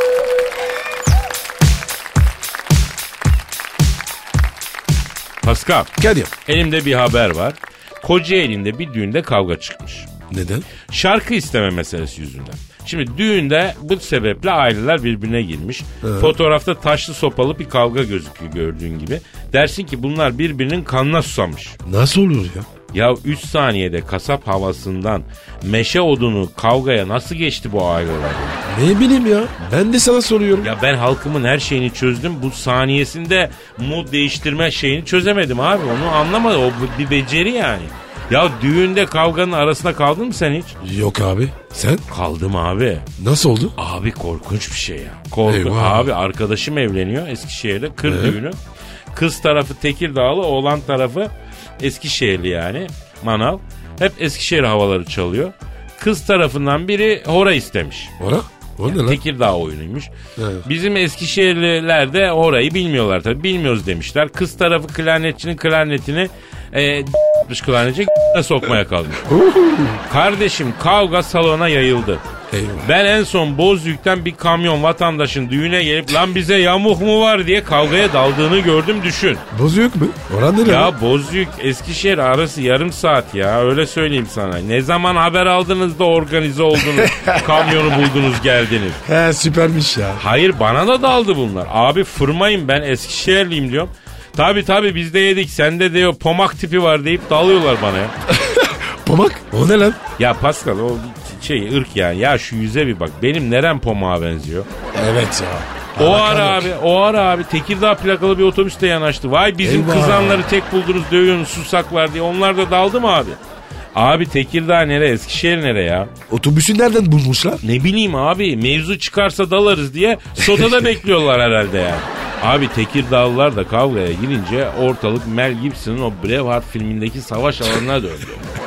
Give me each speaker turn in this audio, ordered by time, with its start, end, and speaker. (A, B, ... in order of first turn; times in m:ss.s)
0:05.4-0:05.9 A
0:06.0-0:06.3 B
0:06.5-0:10.1 A
0:10.3-0:10.7 B
0:10.9-0:21.8 A
0:16.0-0:16.4 B
0:21.8-0:22.7 B
0:22.9-0:28.6 A
0:28.6-0:30.7 B
0:30.6-0:40.8 A
0:40.8-0:42.0 B
0:42.1-0:43.1 A
0:43.2-0:43.8 B
0:43.8-0:48.6 A
0:45.4-0:46.1 B
0:48.0-0:48.4 B
0:49.1-0:58.1 A
0:58.2-0:59.2 B
0:58.9-1:00.1 A
1:00.4-1:00.7 B
1:00.6-1:09.2 A
1:09.2-1:10.0 B
1:10.1-1:12.2 A
1:12.5-1:12.9 B
1:12.8-1:19.4 A
1:19.5-1:20.9 B
1:20.6-1:29.0 A
1:27.0-1:27.5 B
1:29.0-1:30.2 B
1:30.2-1:38.1 A
1:38.3-1:40.0 B
1:40.2-1:44.7 A
1:44.9-1:46.7 B
1:46.0-1:53.4 A
1:49.6-1:50.5 B
1:54.0-1:56.1 A
1:56.3-1:57.6 B
1:57.6-2:08.5 A
2:00.4-2:00.8 B